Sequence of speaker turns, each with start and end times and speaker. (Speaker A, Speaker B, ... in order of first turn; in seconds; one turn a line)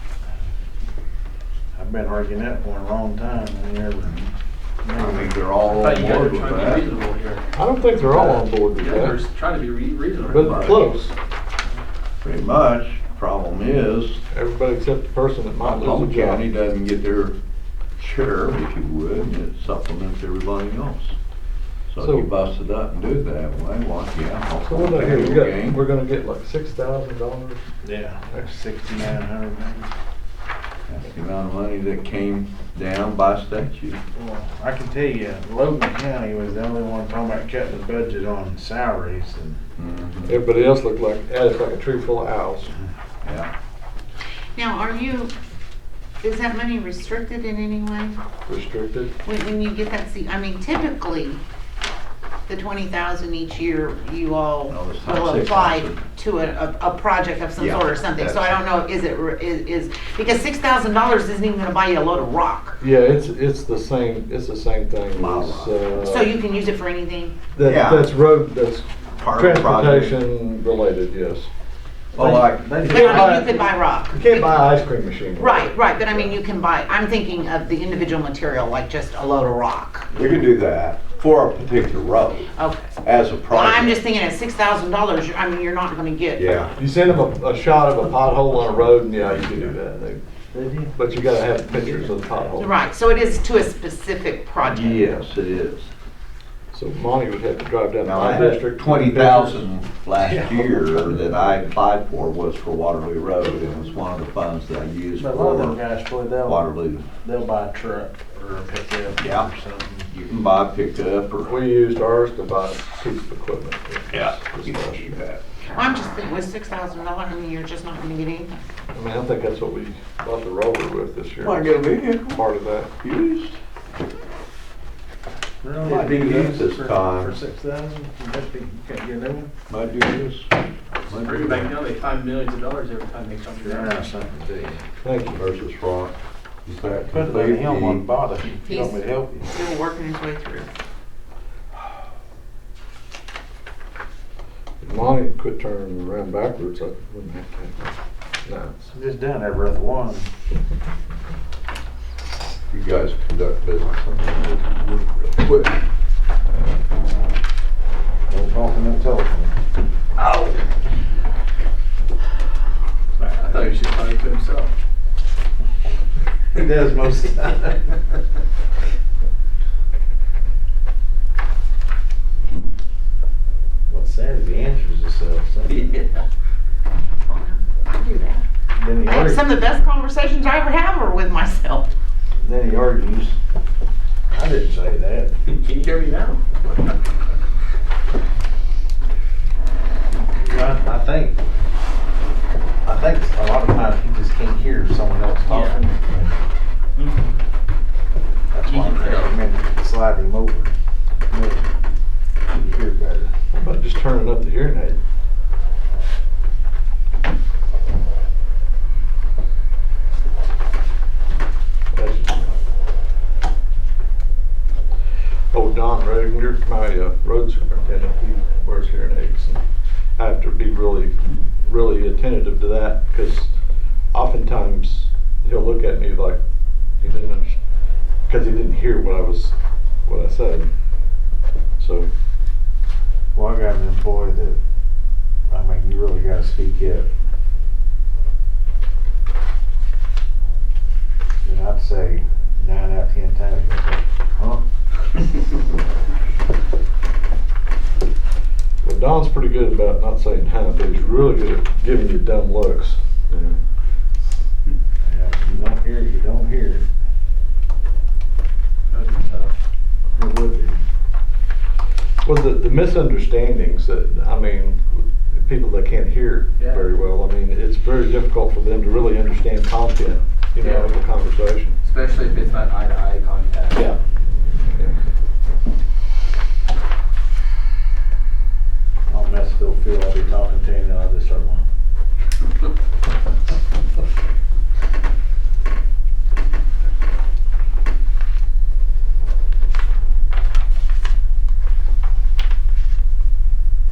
Speaker A: 1.7-4.2
Speaker A: 4.8-5.3
Speaker B: 4.9-6.9
Speaker C: 5.6-7.5
Speaker D: 7.5-9.2
Speaker C: 8.0-10.8
Speaker D: 10.2-11.1
Speaker B: 10.4-10.8
Speaker B: 12.2-14.2
Speaker D: 14.3-16.4
Speaker B: 15.6-17.4
Speaker B: 18.0-21.1
Speaker B: 21.9-25.8
Speaker D: 22.0-22.3
Speaker D: 24.6-27.6
Speaker A: 27.8-29.9
Speaker B: 30.9-34.0
Speaker A: 34.1-39.6
Speaker B: 39.8-40.4
Speaker D: 40.2-42.7
Speaker B: 43.2-43.5
Speaker E: 44.5-45.3
Speaker E: 46.2-48.2
Speaker D: 48.5-49.1
Speaker E: 49.2-51.4
Speaker E: 52.5-62.8
Speaker B: 54.7-56.0
Speaker B: 57.6-58.6
Speaker D: 62.8-66.3
Speaker B: 65.1-65.7
Speaker E: 65.9-67.4
Speaker D: 67.5-71.5
Speaker B: 67.6-68.1
Speaker B: 69.2-70.2
Speaker B: 72.1-72.8
Speaker A: 72.2-73.7
Speaker E: 72.9-74.8
Speaker D: 72.9-76.3
Speaker E: 75.3-80.1
Speaker B: 80.1-82.5
Speaker E: 82.6-83.0
Speaker B: 83.0-84.0
Speaker E: 83.5-86.7
Speaker B: 86.4-86.7
Speaker D: 86.8-90.2
Speaker B: 88.9-89.7
Speaker A: 90.5-91.1
Speaker D: 90.9-92.8
Speaker E: 92.5-95.3
Speaker B: 94.6-95.9
Speaker D: 96.7-99.7
Speaker B: 98.0-105.8
Speaker A: 100.2-101.2
Speaker A: 105.2-106.7
Speaker B: 106.4-107.1
Speaker A: 107.2-110.1
Speaker B: 109.2-109.5
Speaker B: 110.1-111.6
Speaker D: 111.5-115.1
Speaker B: 114.1-115.5
Speaker E: 115.7-118.5
Speaker D: 118.9-122.9
Speaker B: 121.4-122.4
Speaker B: 123.0-123.6
Speaker A: 125.6-129.5
Speaker B: 125.8-127.3
Speaker B: 129.7-130.5
Speaker B: 131.1-131.7
Speaker C: 131.1-134.1
Speaker A: 133.6-134.5
Speaker D: 135.0-135.4
Speaker B: 135.3-136.1
Speaker B: 136.7-138.0
Speaker A: 136.9-139.5
Speaker E: 138.6-140.7
Speaker D: 144.8-148.9
Speaker A: 148.9-150.3
Speaker B: 152.7-155.8
Speaker A: 158.3-159.5
Speaker C: 163.3-164.7
Speaker A: 166.5-167.8
Speaker A: 173.9-175.9
Speaker C: 175.7-176.2
Speaker E: 177.2-178.4
Speaker A: 178.8-179.5
Speaker E: 179.0-181.9
Speaker A: 182.4-183.4
Speaker A: 184.3-185.3
Speaker C: 185.4-186.4
Speaker A: 190.3-191.4
Speaker A: 192.8-195.9
Speaker C: 195.5-196.1
Speaker C: 197.0-197.3
Speaker A: 198.5-200.7
Speaker C: 198.6-199.3
Speaker A: 201.3-201.6
Speaker A: 202.5-203.3
Speaker D: 203.5-205.0
Speaker D: 211.9-212.5
Speaker D: 215.5-219.6
Speaker D: 220.2-223.5
Speaker D: 224.1-226.4
Speaker D: 227.0-227.6
Speaker D: 228.3-230.7
Speaker D: 231.8-232.1
Speaker A: 233.3-234.6
Speaker A: 235.5-237.1
Speaker A: 241.4-244.6
Speaker D: 248.8-253.6
Speaker A: 255.0-256.9
Speaker C: 258.9-259.5
Speaker A: 260.1-260.8
Speaker D: 262.2-271.8
Speaker C: 266.6-266.9
Speaker C: 270.6-270.9
Speaker C: 271.8-273.9
Speaker A: 279.1-281.6